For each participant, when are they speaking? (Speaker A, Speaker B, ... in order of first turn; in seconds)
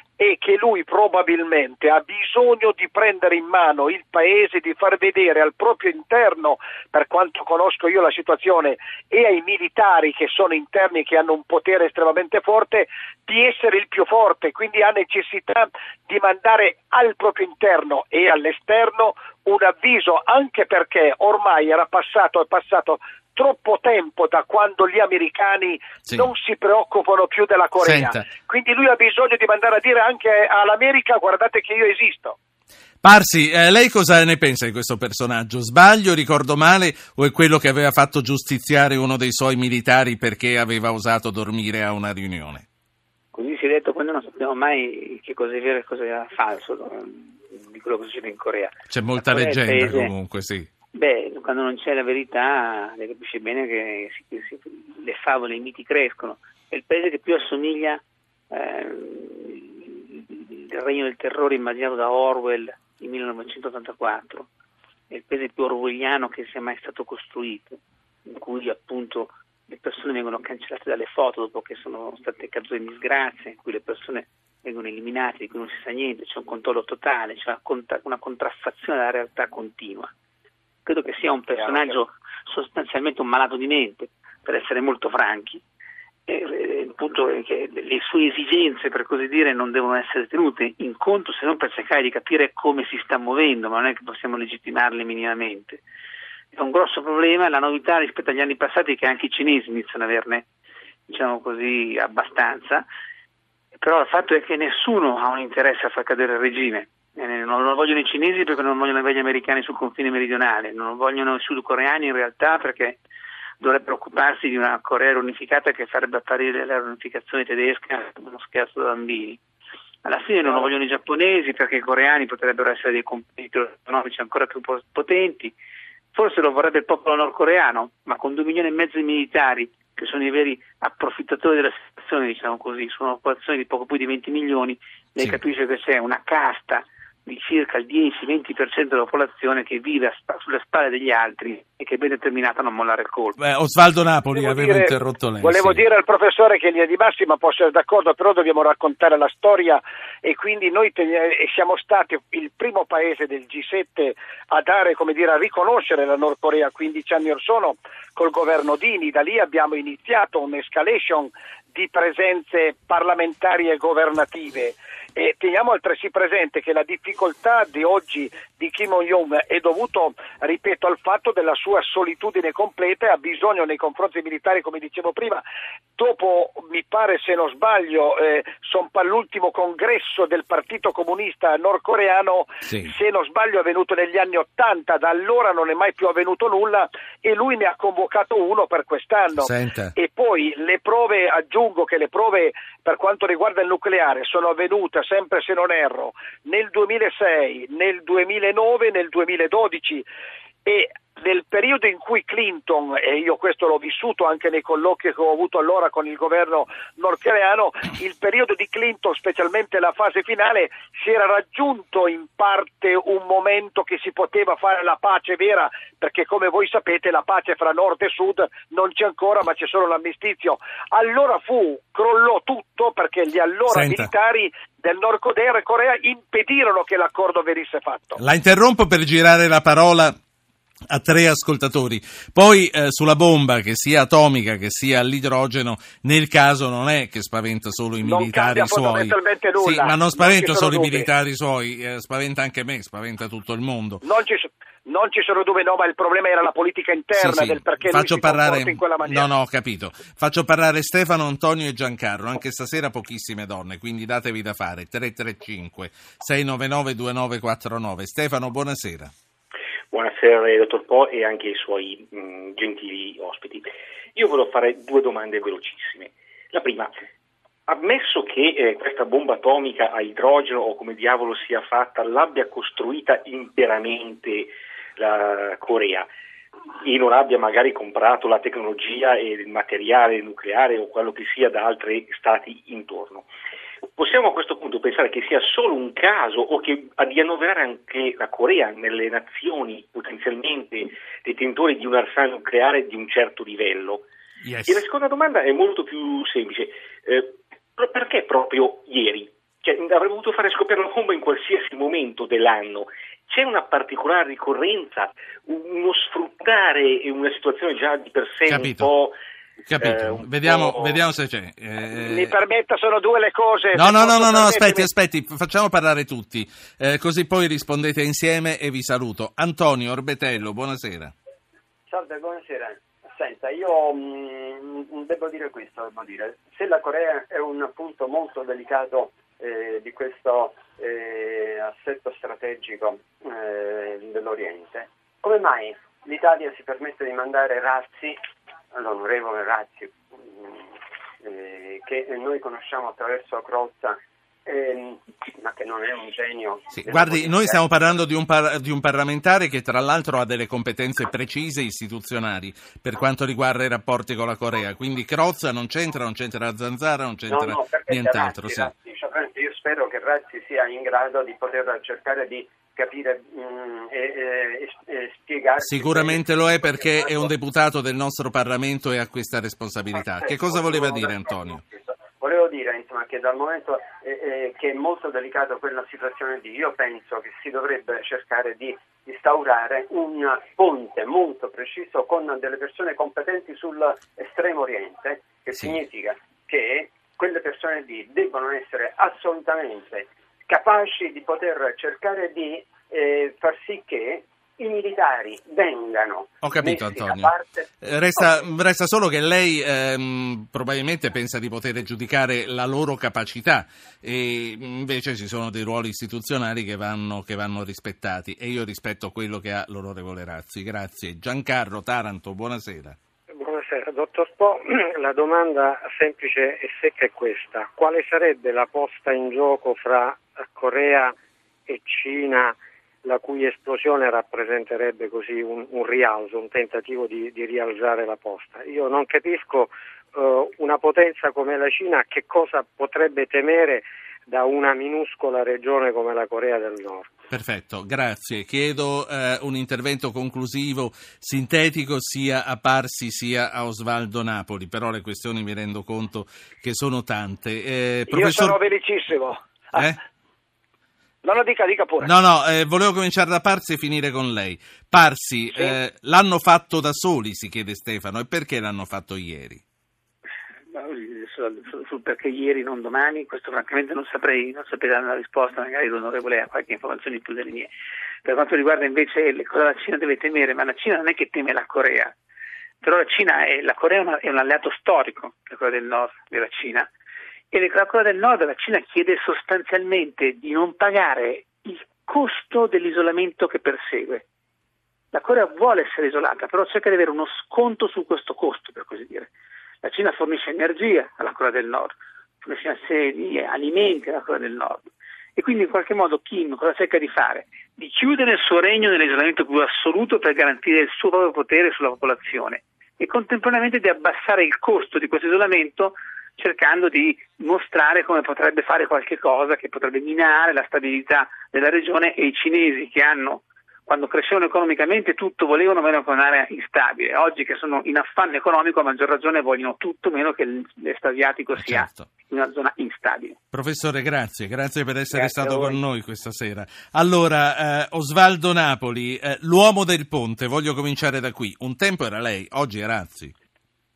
Speaker A: 0.2-32.4, 144.3-175.4, 176.0-200.1, 200.7-228.2, 238.0-241.1, 244.0-249.3, 311.9-314.9, 448.1-449.9, 451.2-452.1, 525.1-525.8
Speaker B: 27.8-28.2, 33.0-42.6, 48.9-50.7, 143.4-145.8, 182.6-182.9, 189.3-189.9, 223.7-224.1, 228.2-230.2, 230.9-244.0, 247.1-259.1, 294.4-294.8, 308.5-308.9, 309.7-312.4, 313.7-321.1, 346.7-358.7, 365.6-371.6, 396.4-413.0, 437.3-448.6, 449.7-450.0, 452.0-459.6, 521.6-522.1, 523.5-533.3
Speaker C: 43.3-50.1, 50.9-64.5, 65.1-80.1, 80.8-85.6, 86.3-95.8, 96.5-100.5, 101.1-102.9, 103.8-113.0, 113.6-119.4, 120.0-125.5, 126.1-143.4, 460.7-467.7, 468.2-472.1, 472.8-476.9, 477.5-484.2, 485.1-489.3, 489.8-494.8, 495.4-523.4
Speaker D: 81.6-82.0, 321.9-338.2, 338.7-340.7, 341.2-347.6, 357.3-367.3, 370.1-397.7
Speaker E: 259.9-266.9, 267.7-276.1, 276.8-283.3, 283.9-294.1, 294.6-309.2, 309.8-311.0
Speaker F: 413.4-437.1